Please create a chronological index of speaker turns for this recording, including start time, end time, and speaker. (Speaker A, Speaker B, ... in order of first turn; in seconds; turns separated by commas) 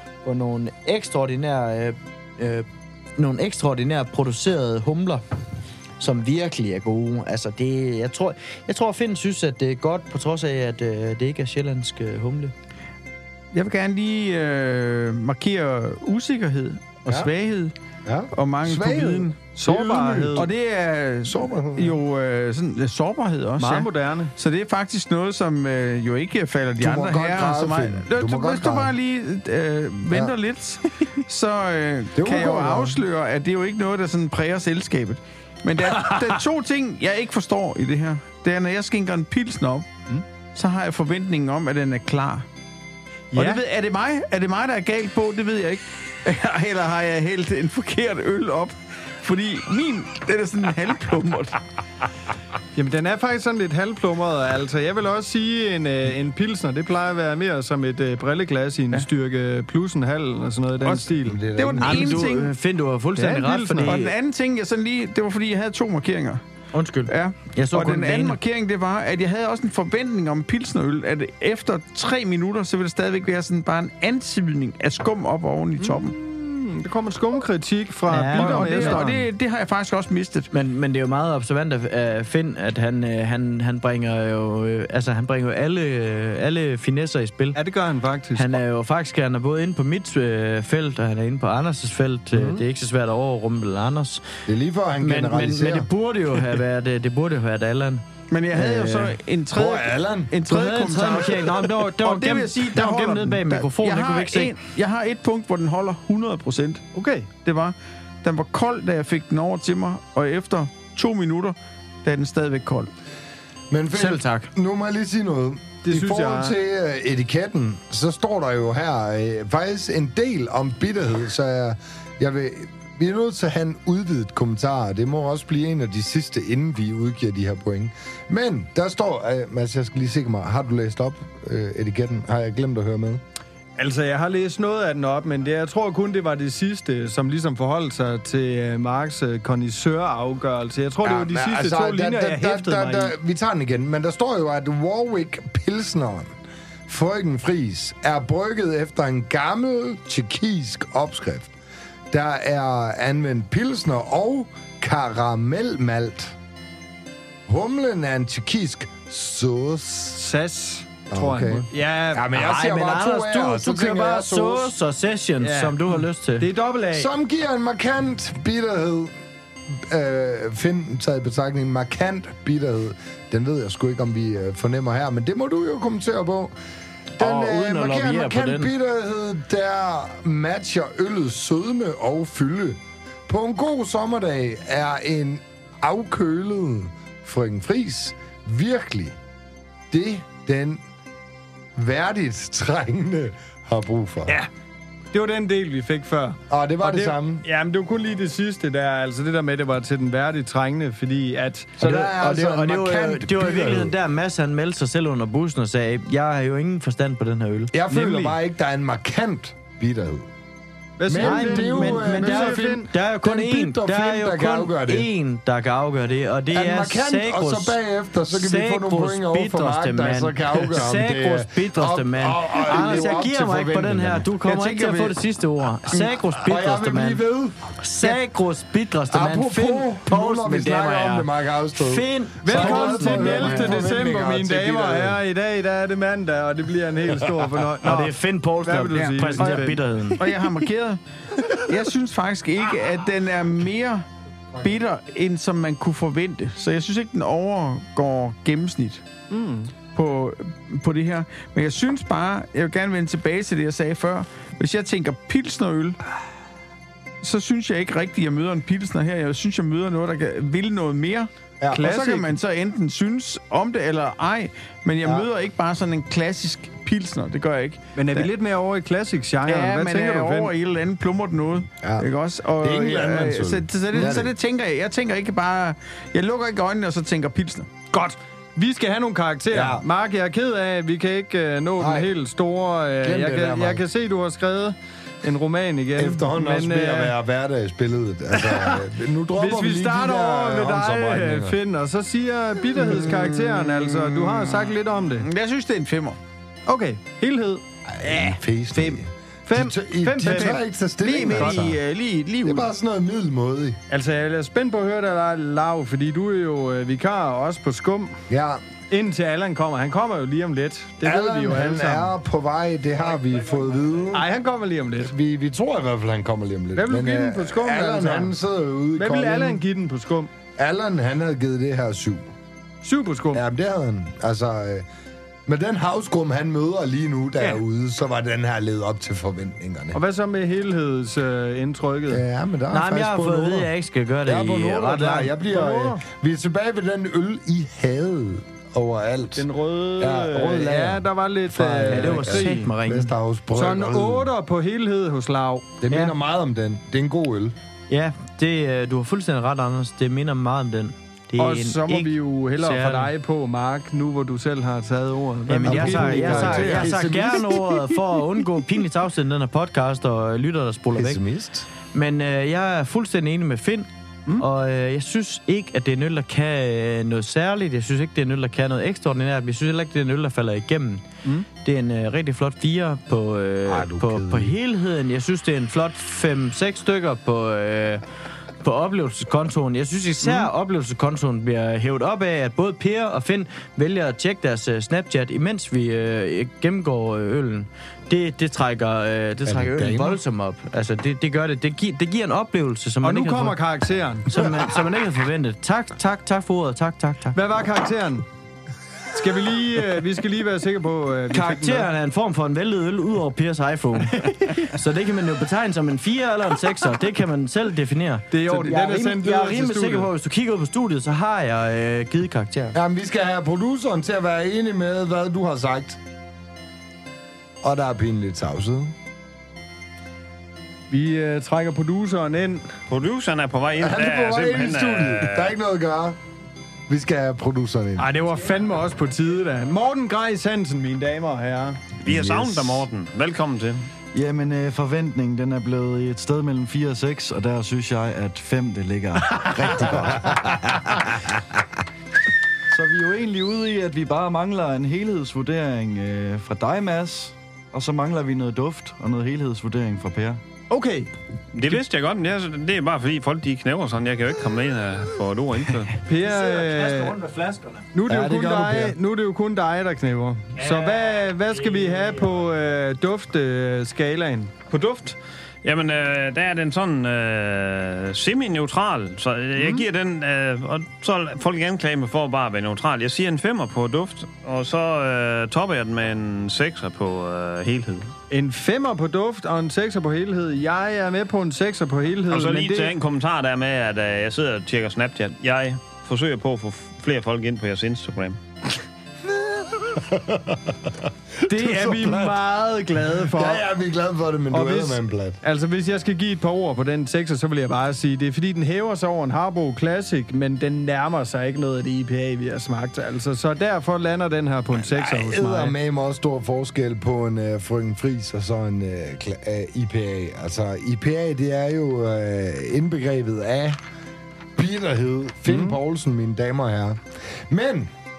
Speaker A: 0.2-2.6, Speaker A: 3.2-5.2, Speaker A: 6.0-12.5, Speaker B: 13.5-17.7, Speaker C: 18.1-20.5, Speaker B: 18.3-19.4, Speaker D: 19.5-20.5, Speaker B: 20.3-39.9, Speaker C: 21.2-22.0, Speaker D: 23.6-24.3, Speaker C: 26.8-28.9, Speaker C: 32.1-33.0, Speaker B: 40.5-42.4, Speaker D: 43.3-43.6, Speaker B: 43.3-51.6, Speaker D: 52.7-61.4, Speaker B: 60.8-62.5, Speaker C: 61.2-62.3, Speaker A: 61.8-64.1, Speaker D: 63.1-64.0, Speaker B: 63.9-66.4, Speaker A: 66.7-68.4, Speaker B: 67.1-76.1, Speaker D: 75.8-79.2, Speaker A: 78.1-79.0, Speaker B: 78.3-80.5, Speaker A: 80.5-87.6, Speaker D: 87.5-88.6, Speaker A: 88.3-94.3, Speaker C: 94.5-95.9, Speaker A: 95.0-99.2, Speaker B: 98.3-106.8, Speaker C: 99.5-100.3, Speaker A: 100.5-104.5, Speaker D: 106.9-107.3, Speaker B: 107.4-112.9, Speaker C: 113.7-133.2, Speaker A: 113.9-114.5, Speaker D: 115.8-116.5, Speaker D: 133.8-143.1, Speaker C: 141.0-146.3, Speaker C: 146.9-151.5, Speaker C: 152.1-156.3, Speaker C: 157.5-160.2, Speaker D: 160.1-162.3, Speaker C: 161.1-164.7, Speaker A: 162.3-166.5, Speaker D: 165.4-167.1, Speaker C: 166.9-169.1, Speaker C: 169.7-176.5, Speaker C: 177.2-189.2, Speaker A: 177.2-178.7, Speaker C: 189.9-190.8, Speaker C: 191.8-194.4, Speaker D: 195.1-201.8, Speaker C: 196.5-197.4, Speaker C: 201.8-203.9, Speaker A: 201.8-207.7, Speaker C: 207.7-210.3, Speaker D: 207.9-208.3, Speaker D: 211.0-212.9, Speaker C: 211.1-215.1, Speaker A: 211.1-217.8, Speaker C: 216.5-224.3, Speaker A: 218.3-227.2, Speaker B: 224.4-225.2, Speaker C: 226.3-227.6, Speaker A: 227.8-233.8, Speaker C: 229.1-235.2, Speaker D: 232.4-240.3, Speaker A: 237.8-240.2, Speaker B: 239.0-249.0, Speaker D: 249.3-249.7, Speaker B: 249.9-256.0, Speaker B: 257.2-268.3, Speaker D: 261.7-262.3, Speaker D: 267.9-270.5, Speaker B: 269.4-277.7, Speaker C: 271.8-272.1, Speaker C: 272.6-274.3, Speaker D: 277.9-287.1, Speaker C: 279.5-279.8, Speaker C: 281.8-282.1, Speaker C: 283.0-283.8, Speaker C: 285.9-291.6, Speaker D: 288.4-288.7, Speaker D: 289.3-295.3, Speaker B: 293.4-296.2, Speaker D: 296.7-302.6, Speaker C: 297.9-301.8, Speaker B: 300.2-302.4, Speaker C: 302.4-303.8, Speaker D: 303.9-308.2, Speaker C: 308.3-308.6, Speaker D: 308.9-312.1, Speaker C: 311.0-314.3, Speaker D: 314.1-315.1, Speaker C: 315.0-319.6, Speaker D: 316.7-318.3, Speaker D: 319.0-320.3, Speaker C: 320.6-322.2, Speaker D: 322.8-323.4, Speaker C: 323.3-324.9, Speaker C: 325.5-330.0, Speaker D: 329.9-332.2, Speaker C: 332.1-333.7, Speaker A: 332.7-335.3, Speaker C: 334.2-339.5, Speaker D: 335.5-336.0, Speaker D: 339.4-342.7, Speaker C: 340.0-344.3, Speaker A: 341.8-343.1, Speaker D: 343.5-345.8, Speaker C: 345.8-347.5, Speaker A: 345.9-346.1, Speaker A: 347.9-353.1, Speaker D: 351.4-357.4, Speaker A: 355.5-361.2, Speaker C: 355.6-357.5, Speaker C: 360.9-361.7, Speaker A: 361.9-378.0, Speaker C: 373.7-374.6, Speaker A: 378.6-393.6, Speaker D: 380.2-380.5, Speaker C: 389.4-390.2, Speaker D: 393.0-394.4, Speaker A: 394.2-397.4, Speaker D: 397.3-398.2, Speaker D: 399.1-401.9, Speaker A: 401.3-412.8, Speaker D: 404.2-404.6, Speaker D: 408.3-410.1, Speaker C: 412.7-416.0, Speaker C: 417.6-418.9, Speaker D: 420.9-422.7, Speaker E: 422.9-425.5, Speaker C: 423.8-426.2, Speaker C: 426.9-428.1, Speaker D: 428.0-432.0, Speaker E: 432.0-433.9, Speaker C: 432.1-432.9, Speaker F: 434.1-441.1, Speaker F: 442.7-450.4, Speaker D: 450.7-451.1, Speaker E: 451.5-456.0, Speaker D: 456.1-457.2, Speaker A: 456.3-457.8, Speaker D: 457.9-464.7, Speaker C: 458.1-458.9, Speaker E: 464.7-478.1, Speaker D: 469.6-469.8, Speaker D: 478.3-482.9, Speaker E: 482.3-488.4, Speaker C: 489.4-492.4, Speaker D: 491.4-493.6, Speaker C: 493.2-495.4, Speaker D: 494.5-505.7, Speaker C: 504.8-513.8, Speaker C: 514.5-517.9, Speaker D: 515.5-515.8